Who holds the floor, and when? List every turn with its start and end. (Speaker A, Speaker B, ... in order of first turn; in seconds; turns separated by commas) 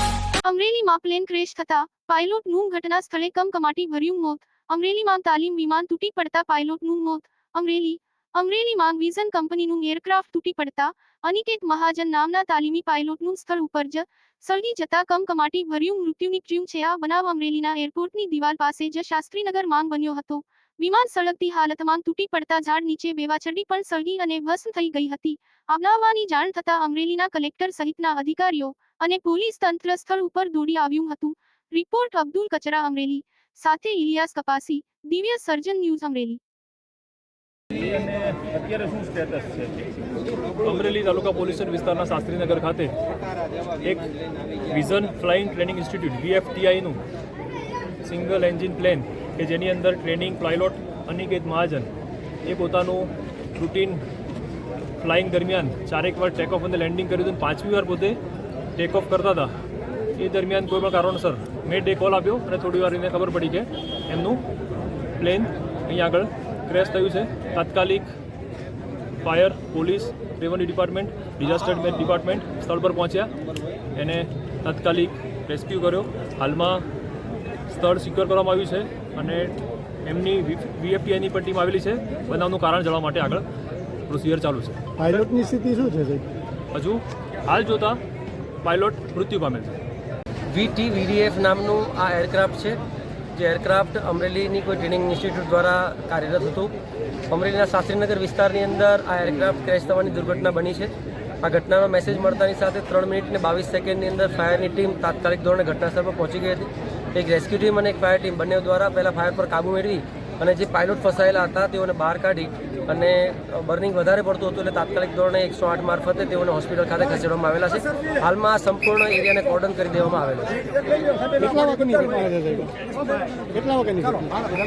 Speaker A: 0.4-36.4, Speaker B: 38.9-39.5, Speaker B: 40.6-42.9, Speaker B: 43.8-44.1, Speaker B: 44.7-47.0, Speaker B: 48.0-51.9, Speaker B: 52.4-54.0, Speaker B: 55.0-58.2, Speaker B: 58.8-59.5, Speaker B: 60.2-64.4, Speaker B: 65.2-68.1, Speaker B: 69.2-73.3, Speaker B: 73.9-76.8, Speaker B: 77.7-83.5, Speaker B: 84.1-84.8, Speaker C: 85.0-86.2, Speaker B: 86.7-88.0, Speaker B: 88.6-89.8, Speaker D: 90.5-92.8, Speaker D: 93.3-96.7, Speaker D: 97.3-120.6, Speaker C: 121.3-122.7, Speaker C: 123.5-124.3